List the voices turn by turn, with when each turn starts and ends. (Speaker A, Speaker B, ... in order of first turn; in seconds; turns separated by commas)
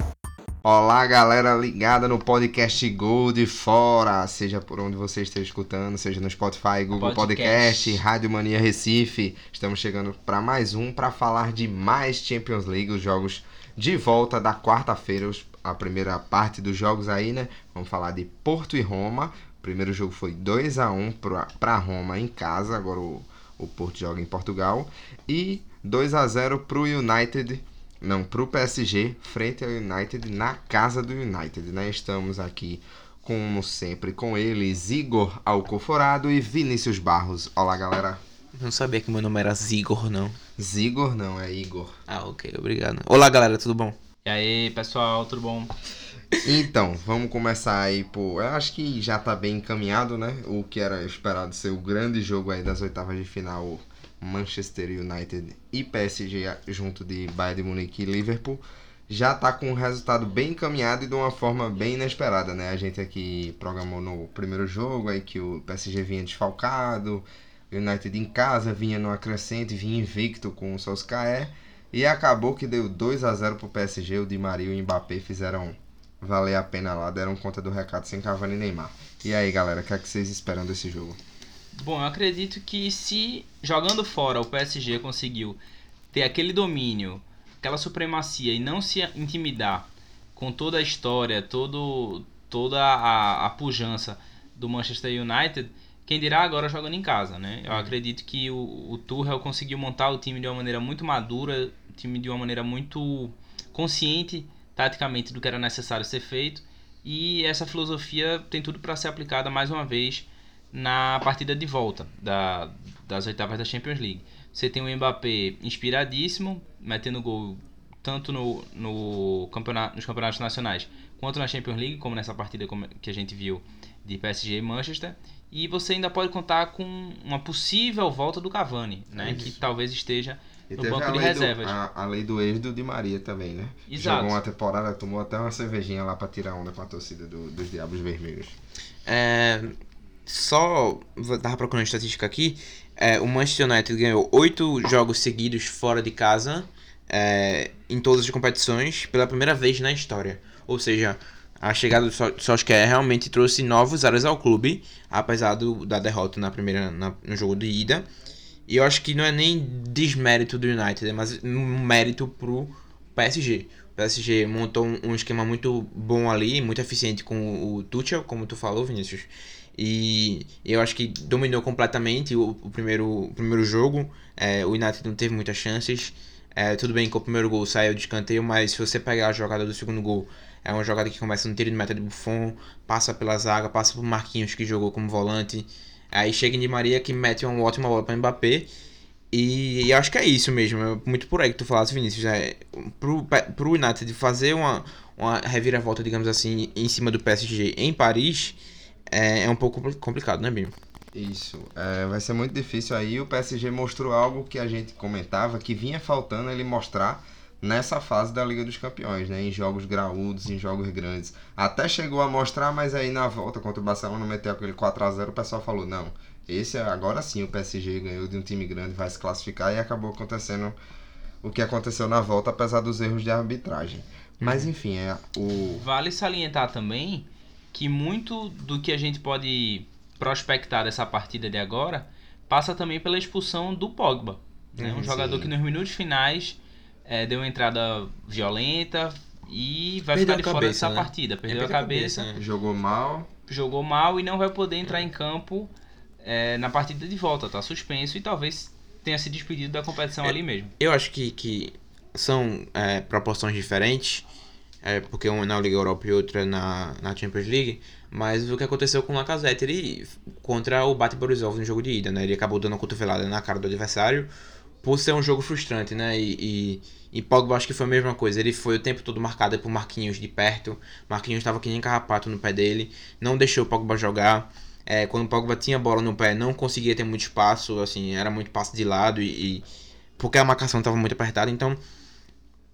Speaker A: 0.6-38.2, Speaker B: 7.0-8.0, Speaker C: 38.6-40.4, Speaker A: 40.6-42.0, Speaker C: 42.1-44.0, Speaker B: 44.2-45.7, Speaker A: 46.4-81.2, Speaker B: 81.7-85.6, Speaker B: 86.1-131.8, Speaker C: 97.7-97.9, Speaker A: 129.2-129.5, Speaker C: 129.2-129.5, Speaker A: 130.7-138.6, Speaker B: 133.9-134.4, Speaker C: 139.1-139.7, Speaker C: 140.3-158.1, Speaker C: 158.7-188.7, Speaker C: 189.3-198.6, Speaker C: 199.1-200.7, Speaker A: 201.1-220.8, Speaker A: 221.4-225.8, Speaker C: 224.4-224.7, Speaker B: 225.6-242.3, Speaker A: 234.8-235.5, Speaker C: 240.1-242.4, Speaker A: 242.3-243.3, Speaker B: 243.5-250.7, Speaker C: 250.2-254.2, Speaker C: 254.8-264.3, Speaker C: 264.8-279.6, Speaker C: 280.2-281.8